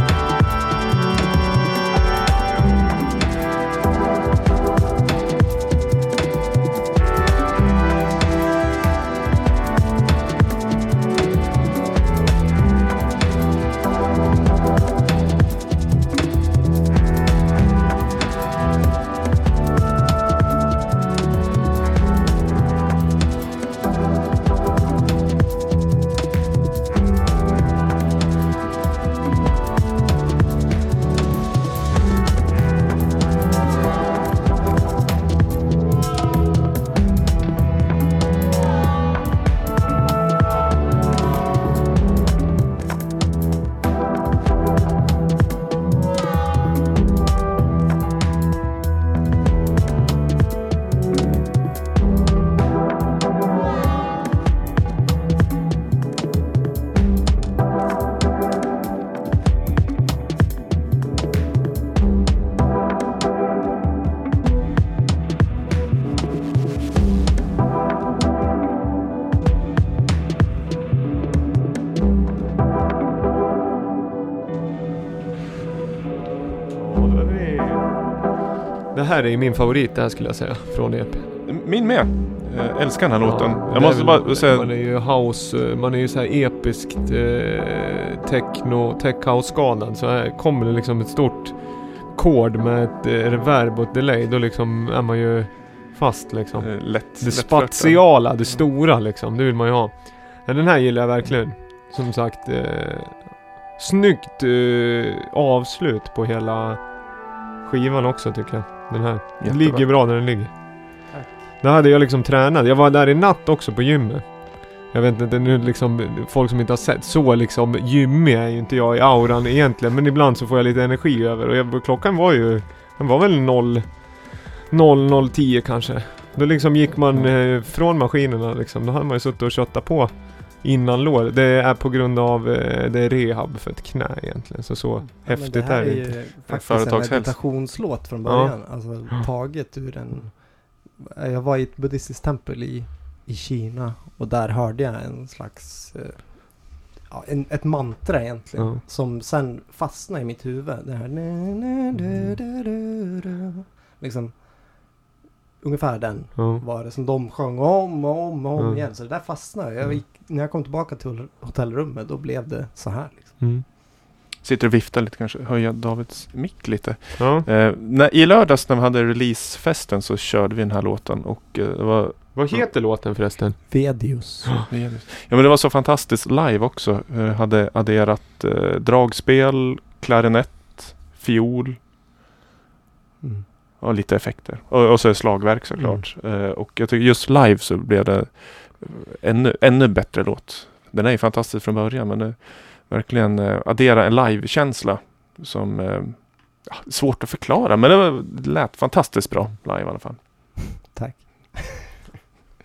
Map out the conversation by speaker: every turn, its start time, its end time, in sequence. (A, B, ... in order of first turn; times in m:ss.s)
1:16.8-1:17.8 A
1:18.9-1:21.3 A
1:21.5-1:24.7 B
1:23.2-1:47.0 A
1:36.6-1:38.0 B
1:47.6-1:50.7 A
1:49.4-1:49.9 B
1:51.1-1:51.4 C
1:51.6-2:16.1 A
2:15.3-2:20.5 C
2:16.5-2:17.4 B
2:18.3-2:18.5 A
2:21.0-2:34.4 C
2:28.6-2:28.8 A
2:35.6-2:43.4 C
2:36.4-2:36.6 A
2:43.4-2:43.6 A
2:44.4-2:52.7 B
2:47.2-2:47.5 A
2:52.4-2:54.7 A
2:53.7-2:54.7 C
2:54.7-3:01.8 B
3:03.8-3:20.2 B
3:05.8-3:06.0 C
3:20.8-3:22.0 C